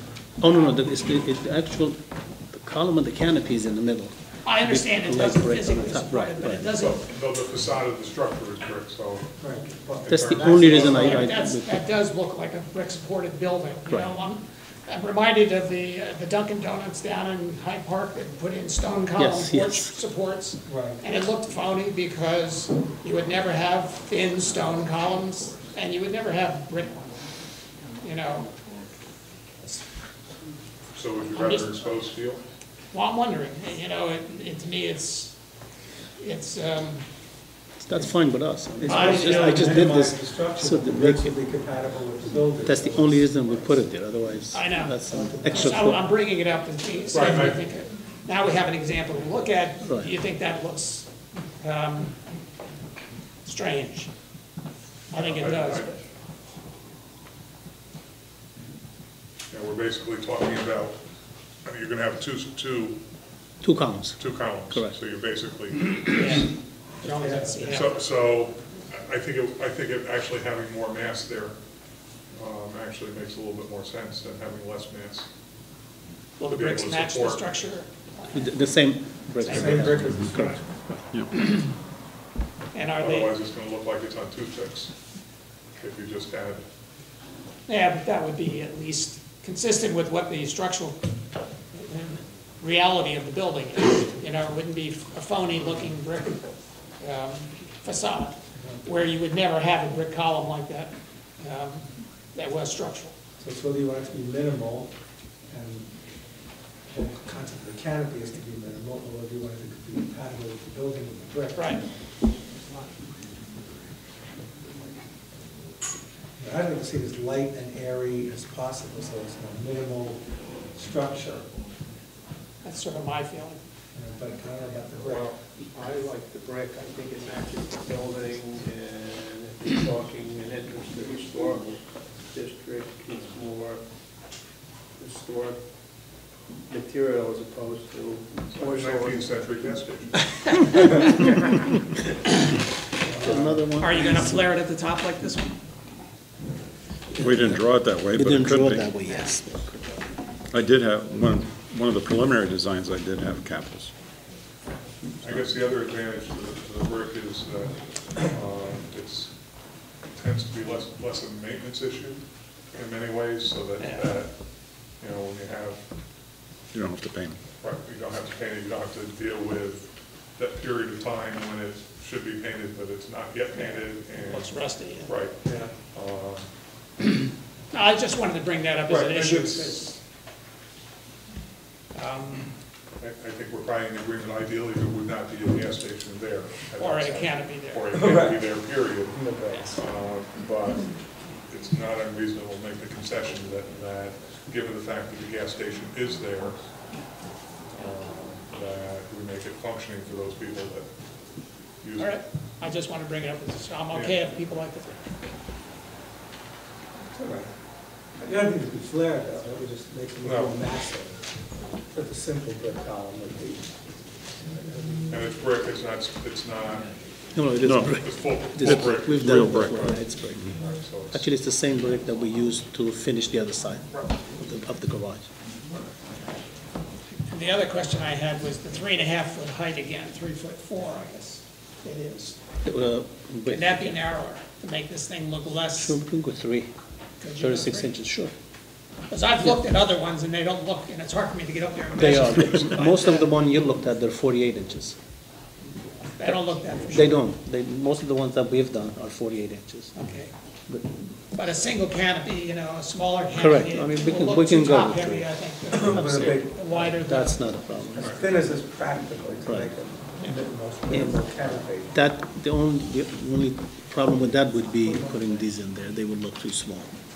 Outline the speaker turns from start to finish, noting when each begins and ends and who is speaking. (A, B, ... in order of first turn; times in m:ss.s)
0:00.4-0:02.0 A
0:02.5-0:06.7 A
0:04.4-0:07.0 B
0:06.8-0:09.4 C
0:09.4-0:11.2 D
0:10.0-0:11.3 C
0:10.1-0:11.7 A
0:10.7-0:27.1 B
0:19.2-0:20.0 A
0:20.7-0:21.0 D
0:28.0-0:28.5 B
0:30.9-0:32.4 C
0:31.3-0:31.8 B
0:32.9-0:35.3 B
0:36.2-0:37.1 B
0:37.8-0:41.4 A
0:38.8-0:43.8 D
0:38.8-0:39.8 B
0:42.6-0:46.0 A
0:44.5-0:51.1 B
0:45.0-0:45.8 D
0:47.1-0:47.6 C
0:49.8-0:50.1 A
0:51.6-0:52.2 B
0:53.4-0:54.1 B
0:55.1-0:55.9 B
0:55.1-0:56.0 C
0:59.5-1:01.0 C
1:01.6-1:03.0 C
1:03.6-1:05.0 A
1:04.2-1:06.2 C
1:06.0-1:08.0 B
1:07.0-1:07.9 D
1:07.7-1:11.6 C
1:12.3-1:15.3 C
1:16.4-1:18.5 B
1:16.4-1:17.5 C
1:18.3-1:21.0 A
1:19.4-1:20.0 B
1:19.4-1:20.6 D
1:22.7-1:23.3 B
1:23.0-1:24.9 C
1:25.8-1:26.6 C
1:27.7-1:31.1 B
1:31.7-1:43.1 B
1:38.5-1:38.8 D
1:43.4-1:44.9 D
1:45.5-1:46.0 D
1:46.9-1:51.7 D
1:51.5-1:51.8 B
1:56.4-2:01.4 D
2:02.6-2:03.6 B
2:03.9-2:05.4 D
2:05.0-2:13.8 E
2:15.0-2:15.6 E
2:16.7-2:19.4 E
2:18.5-2:20.2 C
2:23.0-2:23.6 D
2:23.2-2:24.4 A
2:23.2-2:23.6 E
2:23.8-2:25.6 B
2:27.2-2:29.0 F
2:28.1-2:30.0 A
2:30.5-2:33.9 F
2:35.2-2:39.3 C
2:40.1-2:45.8 C
2:43.8-2:44.2 B
2:46.7-2:47.4 F
2:47.6-2:56.5 C
2:53.5-2:55.1 B
2:55.4-2:55.7 D
2:57.7-3:00.0 B
2:58.9-2:59.6 D
2:59.2-2:59.8 C
3:01.9-3:02.5 B
3:03.0-3:10.9 C
3:06.8-3:08.0 B
3:07.9-3:08.5 D
3:09.1-3:09.8 D
3:09.5-3:09.8 B
3:11.4-3:16.6 C
3:17.7-3:20.9 C
3:21.8-3:22.2 C
3:22.0-3:25.2 B
3:23.9-3:24.2 C
3:27.1-3:27.5 D
3:28.2-3:31.3 D
3:30.2-3:30.6 C
3:31.9-3:33.7 D
3:34.5-3:35.2 D
3:35.1-3:36.9 C
3:37.3-3:40.5 A
3:37.6-3:38.0 F
3:37.9-3:41.2 C
3:38.6-3:40.5 F
3:41.1-3:45.3 A
3:47.2-3:52.4 B
3:52.6-3:53.8 A
3:53.5-3:56.0 B
3:55.8-3:56.7 A
3:57.2-3:57.9 B
3:57.4-3:58.3 A
3:59.1-4:03.3 B
4:01.9-4:05.0 A
4:06.2-4:07.2 B
4:06.9-4:10.0 A
4:09.9-4:10.3 B
4:10.7-4:11.1 A
4:11.3-4:17.4 B
4:13.3-4:18.2 A
4:15.7-4:16.8 D
4:18.0-4:22.0 D
4:18.0-4:18.2 C
4:19.4-4:19.7 A
4:20.9-4:26.9 A
4:24.8-4:25.2 D